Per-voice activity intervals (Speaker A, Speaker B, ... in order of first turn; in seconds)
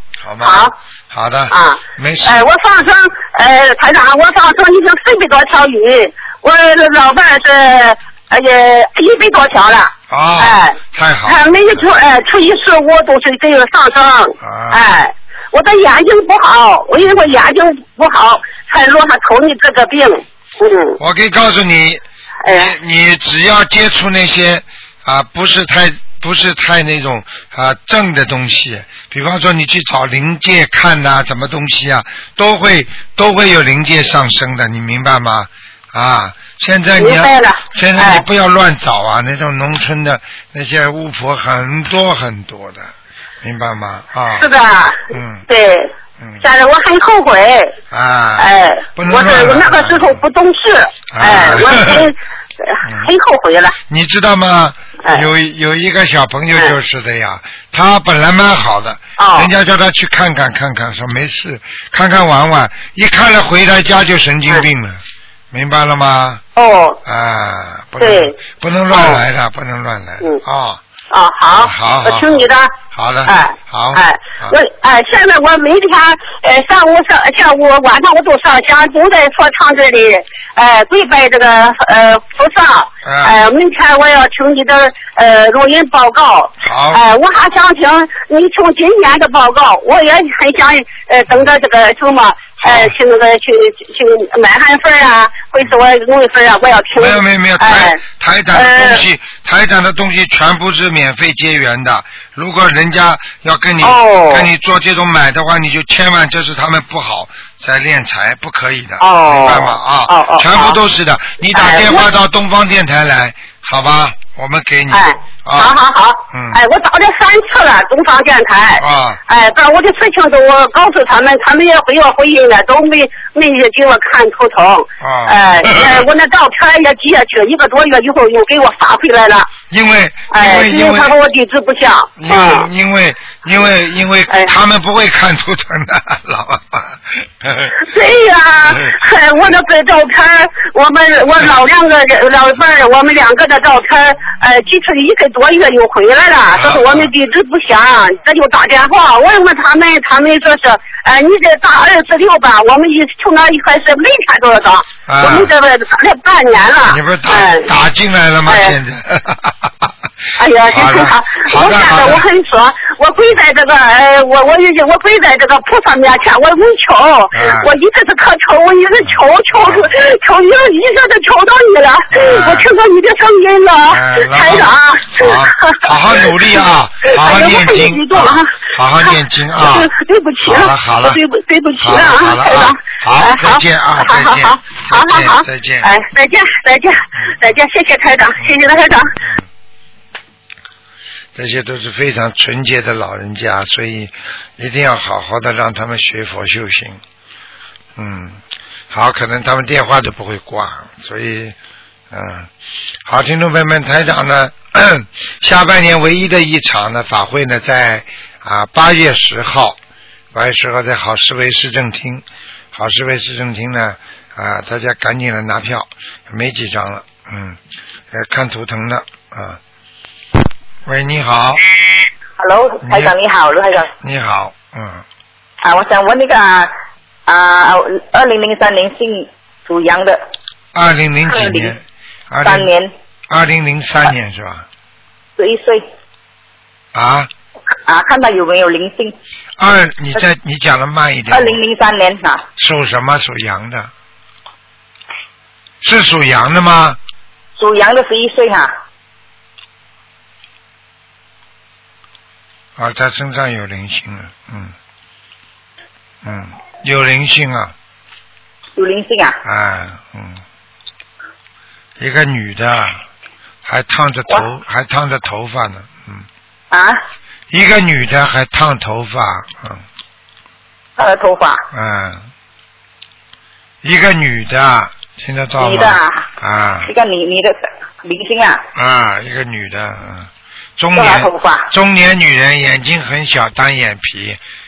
Speaker A: 0.2-2.5, 10.1-11.9, 14.4-15.0, 17.0-17.3, 21.0-44.5, 45.1-45.5, 47.9-50.2, 51.1-52.1, 52.8-53.1, 53.9-66.4, 67.0-70.8, 71.5-74.6, 83.0-83.4, 86.6-87.0, 92.6-93.0, 97.0-115.8, 116.3-116.6, 118.8-119.2, 125.0-126.1, 129.7-131.2, 132.2-137.8, 146.5-147.1, 155.1-155.5, 156.8-159.9, 160.7-162.3, 167.3-167.7, 169.0-169.9, 172.1-172.7, 173.9-179.9, 180.4-181.2, 181.8-185.9, 189.2-189.5, 191.3-197.0, 198.0-201.6, 202.1-202.5, 203.1-209.8, 210.3-217.6, 218.1-219.6, 220.8-221.6, 222.8-223.2, 224.0-225.0, 230.8-232.7, 233.3-234.7, 236.9-237.3, 239.6-241.6, 242.6-243.9, 245.8-247.0, 252.8-254.7, 256.2-257.8, 259.4-260.4, 262.0-263.0, 263.6-266.2, 267.5-269.8, 271.7-272.2, 273.8-276.9, 278.8-284.4
Speaker B: 0.4-0.7, 1.5-21.0, 22.4-22.7, 37.0-38.2, 44.4-47.8, 48.4-53.8, 59.2-59.5, 66.6-67.0, 68.0-68.3, 68.9-69.2, 71.1-72.8, 73.3-98.0, 98.5-99.0, 103.8-104.5, 109.0-110.8, 111.5-112.0, 114.9-129.5, 130.3-132.7, 134.3-134.5, 137.7-157.7, 158.5-158.8, 160.4-176.3, 177.1-189.1
Speaker C: 222.4-223.9, 225.6-226.7, 227.3-230.2, 231.3-231.8, 232.4-232.9, 235.4-235.8, 237.9-239.2, 241.3-242.5, 247.6-248.7, 258.8-259.4, 266.7-267.0, 271.0-271.7, 275.6-276.3, 276.9-278.6, 280.9-281.7